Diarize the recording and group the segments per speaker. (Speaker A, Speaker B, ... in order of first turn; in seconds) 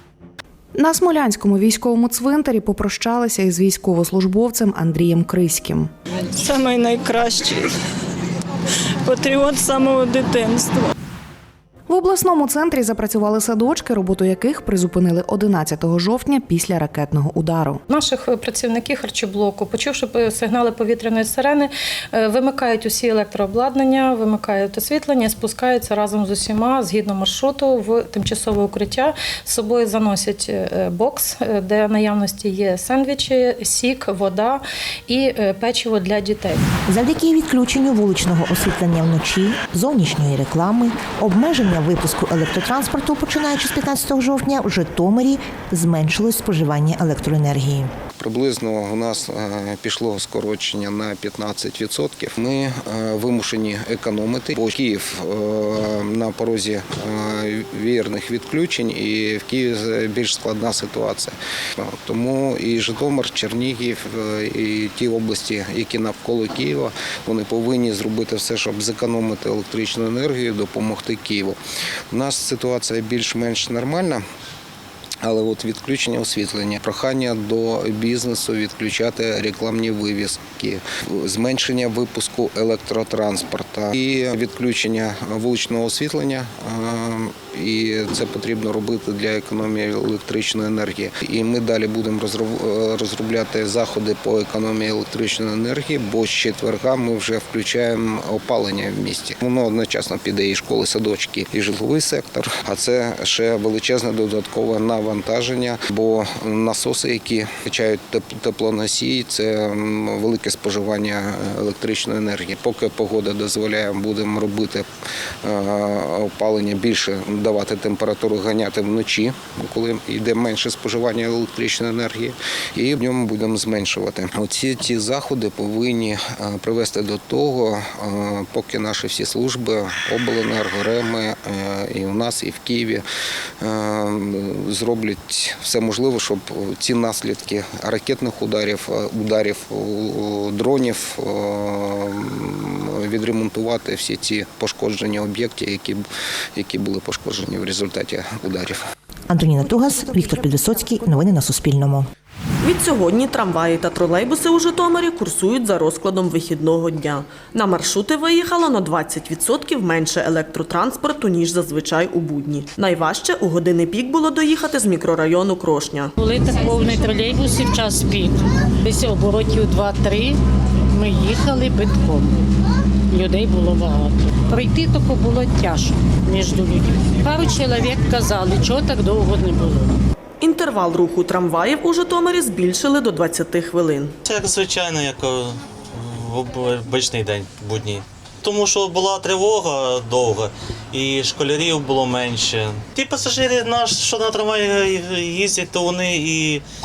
Speaker A: 0.7-5.9, 11.9-17.8
Speaker B: 6.4-7.6, 9.1-10.9
Speaker C: 17.9-36.6
Speaker D: 36.9-47.9, 149.3-152.1
Speaker E: 48.2-71.6, 72.1-74.2, 75.2-114.9, 115.4-133.0, 133.6-148.8
Speaker F: 152.6-166.1, 180.4-184.1
Speaker G: 166.2-170.4, 170.9-172.3, 173.1-179.9
Speaker H: 184.3-185.4, 186.3-196.4